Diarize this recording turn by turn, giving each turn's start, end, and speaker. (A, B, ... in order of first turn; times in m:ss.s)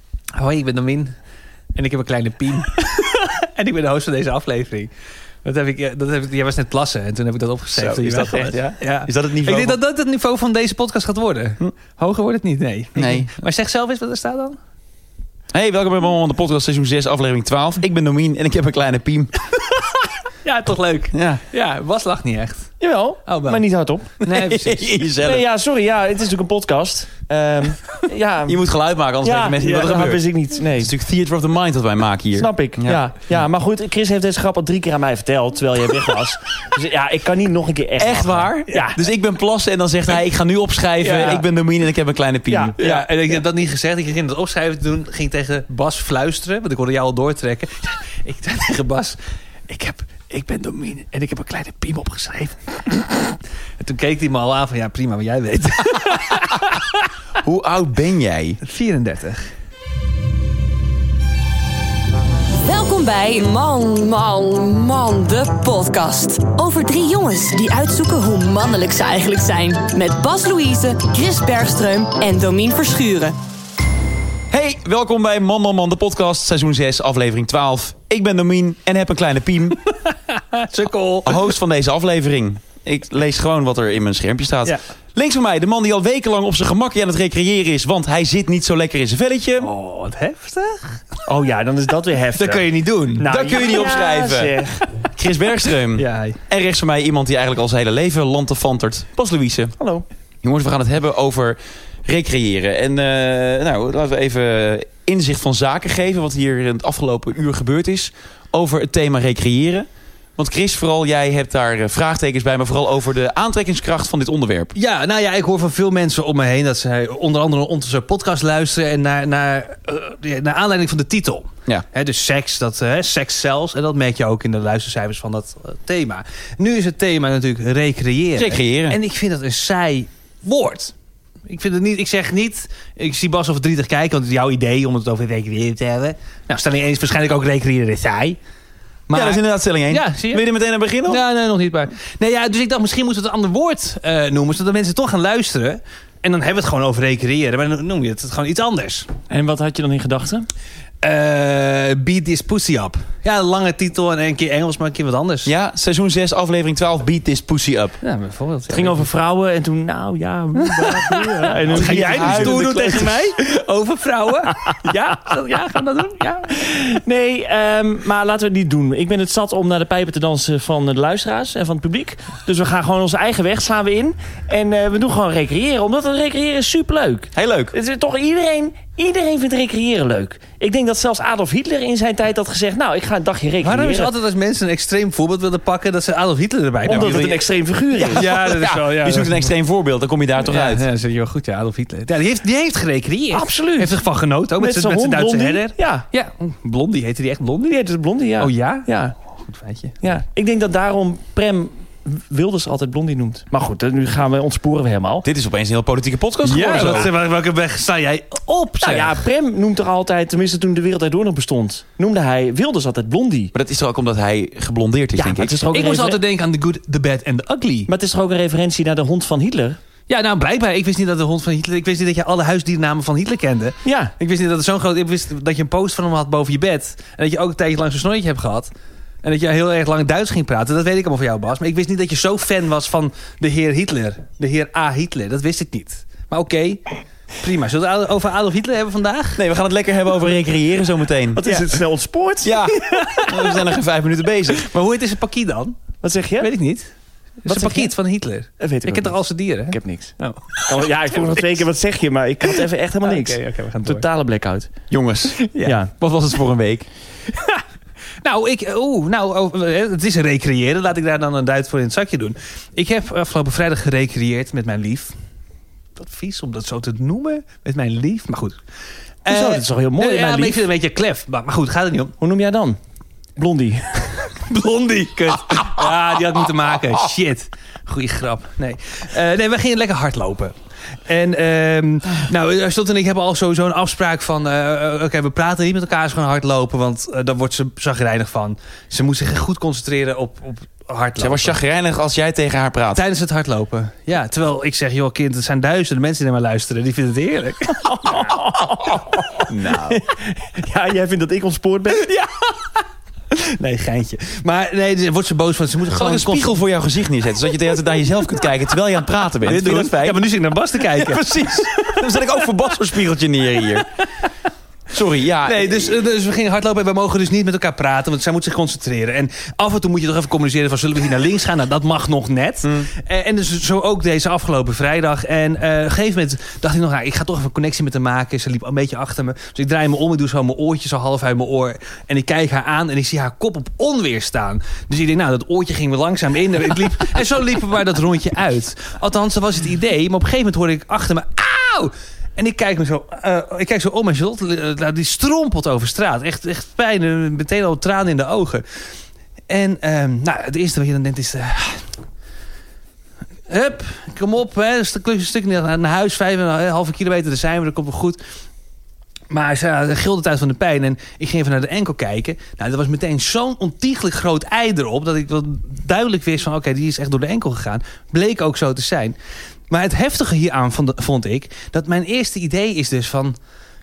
0:00.3-0:01.1 A
0:01.7-0:04.9 A
0:05.4-0:14.6 A
0:07.8-0:09.8 B
0:13.0-0:13.3 B
0:15.5-0:19.3 B
0:20.4-0:22.7 A
0:21.1-0:21.4 B
0:22.8-0:24.1 C
0:23.3-0:23.6 A
0:24.2-0:25.0 A
0:24.2-0:25.4 B
0:25.2-0:28.6 C
0:28.5-0:33.0 B
0:29.2-0:30.9 C
0:29.6-0:29.9 A
0:32.3-0:39.0 C
0:38.0-0:43.0 B
0:41.0-0:41.4 C
0:42.5-0:42.7 C
0:42.8-0:49.2 A
0:49.7-0:56.7 A
0:57.4-0:58.6 B
0:58.6-0:59.5 A
1:02.6-1:13.4 D
1:14.5-1:19.8 B
1:20.1-1:21.5 A
1:21.2-1:29.7 B
1:29.6-1:31.0 A
1:31.3-1:34.8 C
1:32.3-1:33.3 A
1:33.2-1:34.6 B
1:35.1-1:39.8 B
1:36.0-1:36.4 A
1:39.8-1:40.0 C
1:40.4-1:54.7 B
1:54.8-2:10.9 A
2:08.4-2:09.0 B
2:11.4-2:18.4 A
2:19.1-2:20.4 A
2:19.1-2:21.2 B
2:21.1-2:29.1 A
2:29.3-2:30.5 C
2:31.0-2:35.5 A
2:35.4-2:38.0 B
2:38.0-2:39.1 A
2:38.7-2:43.1 C
2:40.6-2:46.6 A
2:41.7-2:43.3 B
2:46.5-3:04.1 C
2:57.4-2:57.8 B
3:03.6-3:07.2 A
3:06.8-3:08.3 C
3:06.9-3:07.4 B
3:08.0-3:09.5 A
3:08.1-3:10.8 B
3:10.4-3:17.8 A
3:13.3-3:14.0 C
3:14.6-3:16.1 C
3:17.7-3:19.1 C
3:18.4-3:18.9 A
3:19.4-3:19.9 A
3:20.0-3:25.3 C
3:25.2-3:27.1 B
3:26.5-3:27.1 C
3:26.5-3:29.2 A
3:28.8-3:33.5 C
3:33.5-3:35.7 B
3:35.1-3:36.2 C
3:35.7-3:37.9 A
3:37.9-3:39.8 C
3:40.1-3:48.7 A
3:43.8-3:44.1 C
3:49.2-3:59.4 A
3:59.4-4:01.4 B
4:01.4-4:02.5 C
4:02.4-4:04.6 B
4:02.8-4:03.3 A
4:04.5-4:05.8 A
4:06.0-4:06.5 C
4:06.4-4:06.9 A
4:07.4-4:10.8 A
4:07.4-4:07.9 C
4:08.6-4:09.2 C
4:09.7-4:14.7 C
4:13.0-4:14.0 A
4:14.9-4:15.4 B
4:15.4-4:15.8 A
4:15.6-4:15.9 C
4:16.0-4:16.9 B
4:17.3-4:17.6 A
4:18.2-4:25.1 A
4:26.0-4:28.6 A
4:29.2-4:32.1 A
4:29.2-4:30.7 C
4:32.2-4:32.8 C
4:33.4-4:34.2 C
4:34.3-4:40.5 A
4:41.1-4:51.6 A
4:51.2-4:53.0 B
4:52.9-4:58.2 A
4:57.9-5:02.1 C
4:59.5-5:00.0 B
5:03.3-5:06.6 A
5:05.9-5:10.2 B
5:09.4-5:12.0 A
5:10.9-5:13.9 B
5:14.9-5:15.9 B
5:15.5-5:48.8 A
5:22.6-5:22.9 B
5:49.5-5:51.8 A
5:53.5-5:58.2 A
5:59.3-6:09.2 A
6:09.7-6:13.4 A